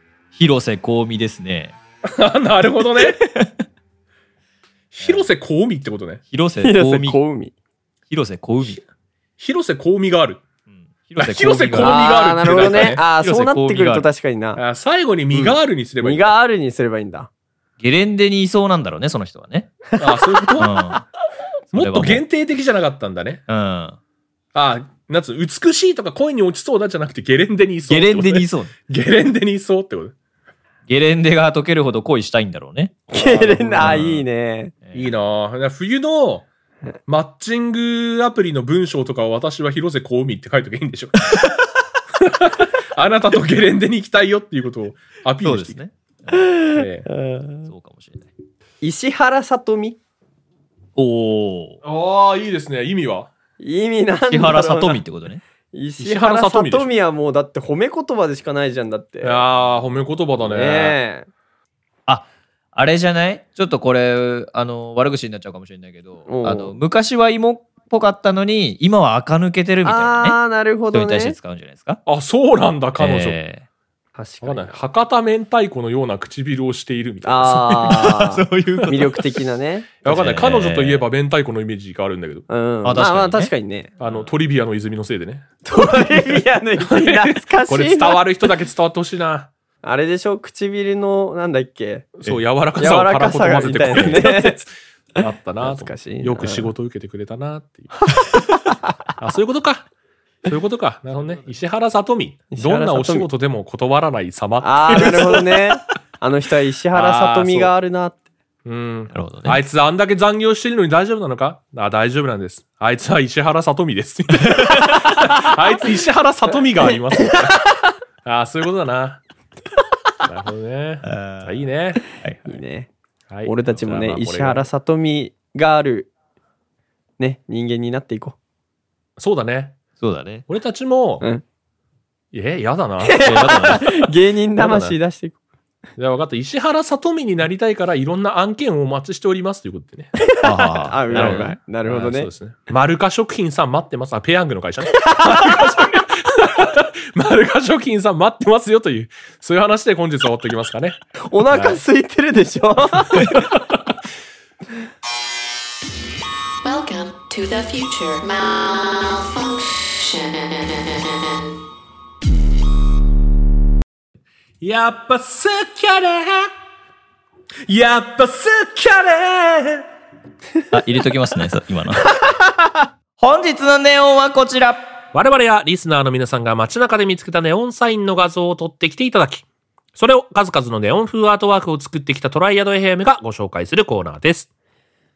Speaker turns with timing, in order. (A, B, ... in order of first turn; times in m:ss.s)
0:00.3-0:01.8 A
0:02.0-0:03.2 B
0:03.2-0:03.5 A
0:04.9-0:06.2 B
0:06.3-0:07.2 A
0:06.6-0:07.5 C
0:08.1-0:08.8 A
0:09.4-0:10.4 B
0:10.7-0:14.1 A
0:11.2-0:13.0 B
0:11.8-0:14.6 C
0:14.6-0:16.3 B
0:15.3-0:17.3 C
0:17.8-0:19.7 A
0:20.0-0:20.9 B
0:20.6-0:21.0 A
0:21.7-0:22.2 A
0:21.7-0:23.4 B
0:23.5-0:24.0 A
0:24.6-0:30.1 B
0:27.9-0:28.7 A
0:30.9-0:33.1 A
0:33.1-0:34.7 C
0:33.2-0:34.0 B
0:33.8-0:34.2 A
0:34.9-0:36.5 B
0:37.1-0:41.3 B
0:42.2-0:45.8 B
0:45.4-0:46.6 A
0:46.7-0:47.1 B
0:47.1-0:47.7 C
0:47.6-0:48.3 A
0:48.8-0:50.0 C
0:51.0-0:51.8 A
0:51.8-0:53.3 B
0:53.6-0:55.0 C
0:54.3-0:55.4 A
0:55.7-0:59.4 C
0:56.0-0:56.9 B
0:59.2-1:01.0 B
1:00.5-1:01.3 C
1:02.1-1:10.4 A
1:06.3-1:06.8 C
1:09.8-1:11.4 C
1:10.9-1:12.0 A
1:12.1-1:13.4 B
1:13.0-1:13.6 A
1:14.2-1:14.8 C
1:14.4-1:18.2 B
1:17.2-1:19.9 C
1:17.9-1:19.2 A
1:20.0-1:22.5 B
1:20.1-1:21.0 A
1:22.5-1:23.9 C
1:22.8-1:24.2 A
1:24.0-1:25.5 B
1:25.6-1:28.2 C
1:26.8-1:29.5 B
1:29.8-1:32.1 C
1:32.2-1:38.1 B
1:32.8-1:34.6 C
1:35.6-1:36.7 C
1:39.2-1:39.9 B
1:40.4-1:45.6 B
1:42.5-1:43.3 C
1:44.6-1:48.2 C
1:46.9-1:47.7 B
1:48.6-1:57.7 B
1:49.1-1:49.6 A
1:54.7-1:55.0 A
1:58.2-1:59.2 B
2:00.2-2:02.0 B
2:01.1-2:01.5 A
2:02.2-2:02.6 A
2:02.5-2:02.9 C
2:03.3-2:04.6 B
2:03.5-2:06.1 C
2:07.2-2:08.4 C
2:09.2-2:09.8 B
2:10.0-2:10.4 A
2:10.5-2:11.2 B
2:12.3-2:14.1 B
2:13.0-2:15.4 C
2:13.3-2:13.8 A
2:16.0-2:20.1 B
2:20.3-2:22.3 C
2:20.4-2:21.5 A
2:21.1-2:31.8 B
2:31.2-2:33.4 C
2:33.2-2:33.6 B
2:36.6-2:41.6 D
2:44.6-2:46.5 B
2:47.7-2:49.8 B
2:50.7-2:52.0 A
2:53.2-2:54.8 A
2:55.1-2:59.4 B
3:00.0-3:04.5 B